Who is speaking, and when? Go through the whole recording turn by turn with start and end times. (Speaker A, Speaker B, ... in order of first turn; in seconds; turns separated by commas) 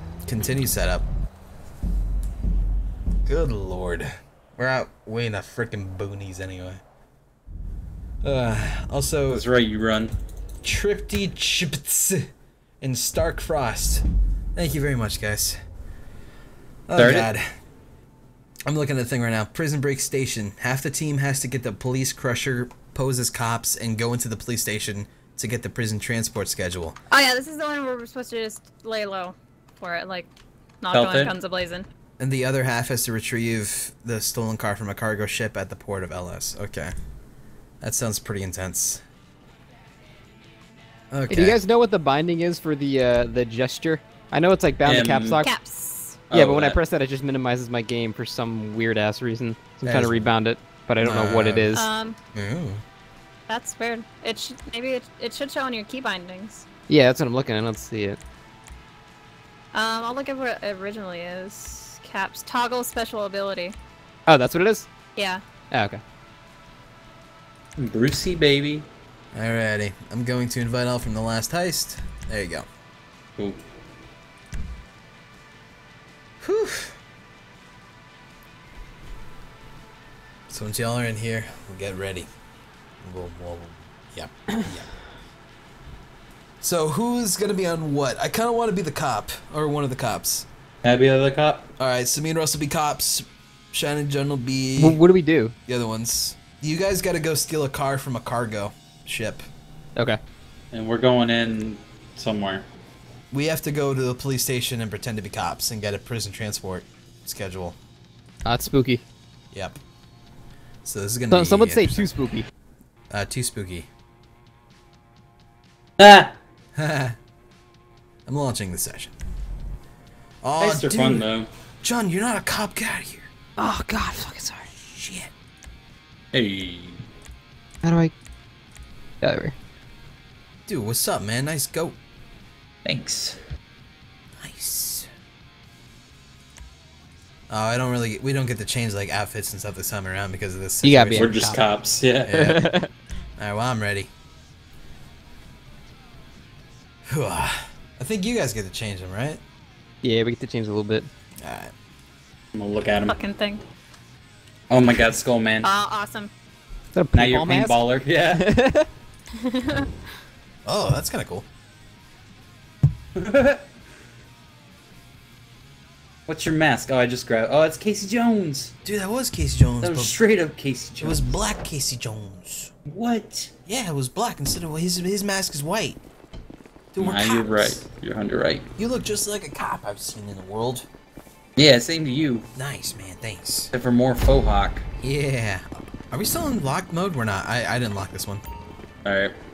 Speaker A: 0.3-1.1, Speaker A: 3.2-6.8, Speaker A: 8.2-9.4, Speaker B: 9.3-10.2, Speaker A: 10.6-15.6, Speaker A: 16.9-17.5, Speaker B: 17.0-17.3, Speaker A: 18.7-27.0, Speaker C: 27.1-30.3, Speaker C: 30.8-31.9, Speaker B: 30.9-31.4, Speaker A: 32.2-36.9, Speaker A: 37.8-39.0, Speaker A: 41.1-41.6, Speaker D: 41.3-45.5, Speaker B: 44.9-45.4, Speaker C: 45.4-46.2, Speaker B: 46.3-46.8, Speaker D: 46.3-51.9, Speaker A: 49.9-50.3, Speaker A: 51.0-51.7, Speaker C: 51.7-52.2, Speaker A: 52.3-52.8, Speaker C: 53.5-56.6, Speaker D: 56.9-58.2, Speaker C: 59.7-63.8, Speaker D: 64.3-64.9, Speaker C: 65.2-65.4, Speaker D: 65.7-66.0, Speaker B: 67.8-68.9, Speaker A: 69.3-72.7, Speaker A: 76.4-77.0, Speaker A: 80.5-82.3, Speaker A: 83.0-84.9, Speaker A: 86.6-90.5, Speaker B: 90.8-91.7, Speaker A: 91.8-95.0, Speaker D: 94.8-95.5, Speaker A: 95.7-99.4, Speaker B: 100.7-102.7, Speaker A: 103.3-107.8, Speaker D: 108.5-109.0, Speaker A: 109.5-109.8, Speaker A: 110.8-112.1, Speaker D: 111.3-112.5, Speaker A: 113.1-113.9, Speaker B: 116.0-116.4, Speaker A: 116.8-117.2, Speaker A: 118.3-119.1, Speaker A: 120.4-121.3, Speaker B: 120.6-121.5, Speaker A: 121.8-123.3, Speaker D: 123.6-124.8, Speaker A: 124.9-125.3, Speaker B: 126.3-127.0, Speaker D: 127.8-128.1, Speaker D: 129.2-129.5, Speaker A: 130.7-132.0, Speaker B: 132.8-133.4, Speaker A: 134.4-135.1, Speaker A: 137.5-141.6, Speaker D: 140.8-141.6, Speaker B: 141.1-142.6, Speaker D: 142.3-142.9, Speaker A: 142.3-142.7, Speaker A: 143.4-144.1, Speaker A: 147.1-149.4, Speaker D: 150.0-151.1, Speaker A: 151.4-151.7, Speaker B: 152.6-153.2, Speaker C: 153.1-153.7, Speaker B: 154.7-155.7, Speaker A: 154.7-155.2, Speaker C: 155.6-156.3, Speaker D: 156.9-157.8, Speaker B: 157.1-158.5, Speaker D: 158.3-158.9, Speaker C: 159.4-159.9, Speaker A: 160.7-161.5, Speaker B: 163.2-163.6, Speaker B: 166.3-168.7, Speaker A: 168.8-170.2, Speaker B: 169.8-171.3, Speaker A: 171.0-172.7, Speaker B: 172.9-173.5, Speaker A: 173.7-176.0, Speaker A: 176.9-177.8, Speaker B: 177.0-178.7, Speaker A: 178.8-180.9, Speaker B: 181.6-182.5, Speaker A: 182.6-183.7, Speaker B: 183.7-184.8, Speaker A: 185.0-188.4, Speaker B: 189.1-189.3